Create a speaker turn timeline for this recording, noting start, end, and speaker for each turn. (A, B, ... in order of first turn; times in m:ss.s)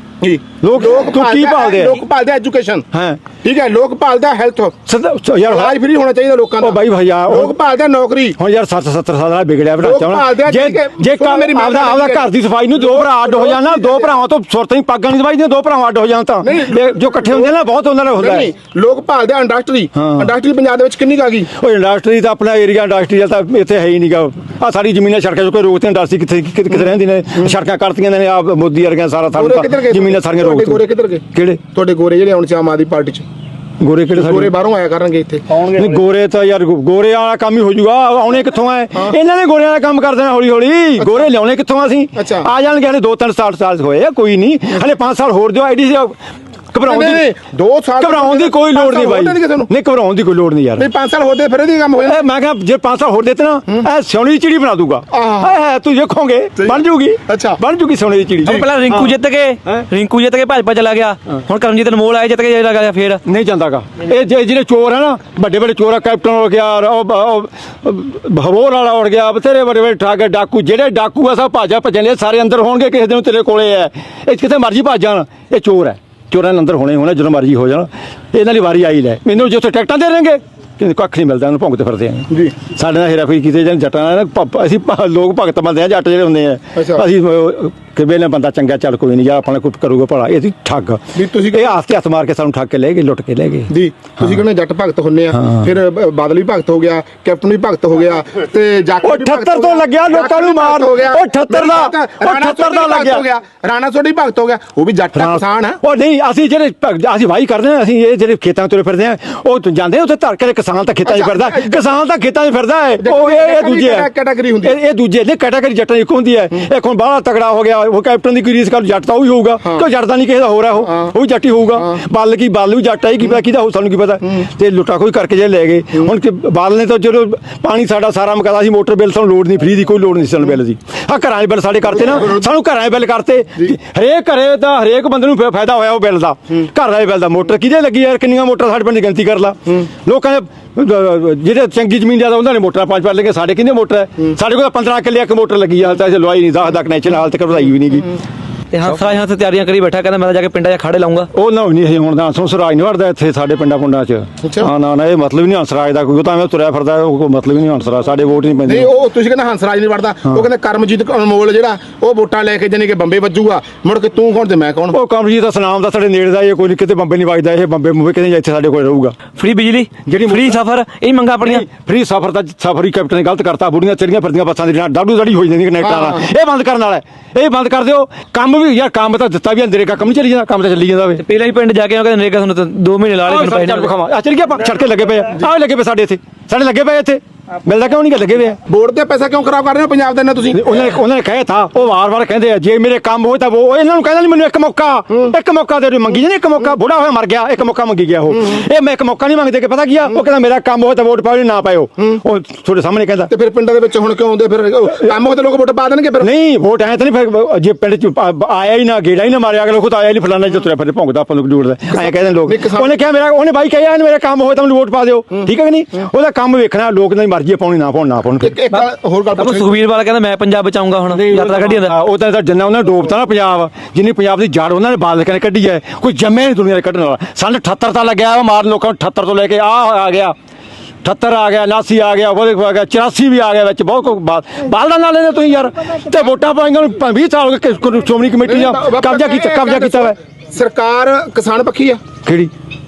0:00.2-0:02.9 A
0:00.6-0:02.0 B
0:02.9-0:03.2 B
0:03.4-0:04.8 A
0:04.9-0:05.8 B
0:05.4-0:08.4 A
0:06.6-0:07.6 B
0:08.4-0:18.5 B
0:09.8-0:14.1 A
0:16.4-0:17.6 A
0:18.2-0:21.5 A
0:19.9-0:20.3 B
0:21.5-0:31.6 B
0:29.4-0:33.3 A
0:33.8-0:34.5 B
0:34.2-0:35.6 A
0:35.5-0:46.2 B
0:41.0-0:41.3 A
0:42.2-0:42.5 A
0:46.7-0:47.2 B
0:46.9-0:49.7 A
0:48.0-0:50.9 B
0:50.8-0:52.2 A
0:52.0-0:59.1 B
0:55.1-0:55.6 A
0:56.6-0:57.6 A
0:58.4-1:03.2 C
1:03.2-1:33.7 B
1:26.8-1:27.0 A
1:31.1-1:31.7 A
1:33.7-1:45.8 A
1:35.4-1:35.7 B
1:39.0-1:43.2 B
1:45.2-1:54.1 B
1:51.0-1:51.8 A
1:53.0-1:54.8 A
1:54.6-2:28.1 B
2:00.9-2:01.1 A
2:28.7-2:31.3 C
2:31.3-2:38.9 B
2:34.4-2:34.7 A
2:38.7-2:45.0 A
2:44.9-2:49.2 B
2:49.4-2:51.7 C
2:50.1-2:50.6 B
2:51.4-3:01.2 B
3:01.2-3:03.9 C
3:03.3-3:08.6 B
3:08.7-3:10.8 A
3:10.5-3:23.3 B
3:23.3-3:26.3 A
3:26.2-3:38.6 B
3:31.9-3:32.9 A
3:38.4-3:39.8 A
3:39.4-3:41.9 C
3:41.1-3:50.3 B
3:51.0-4:00.2 B
3:58.4-4:02.0 A
4:02.2-4:02.5 B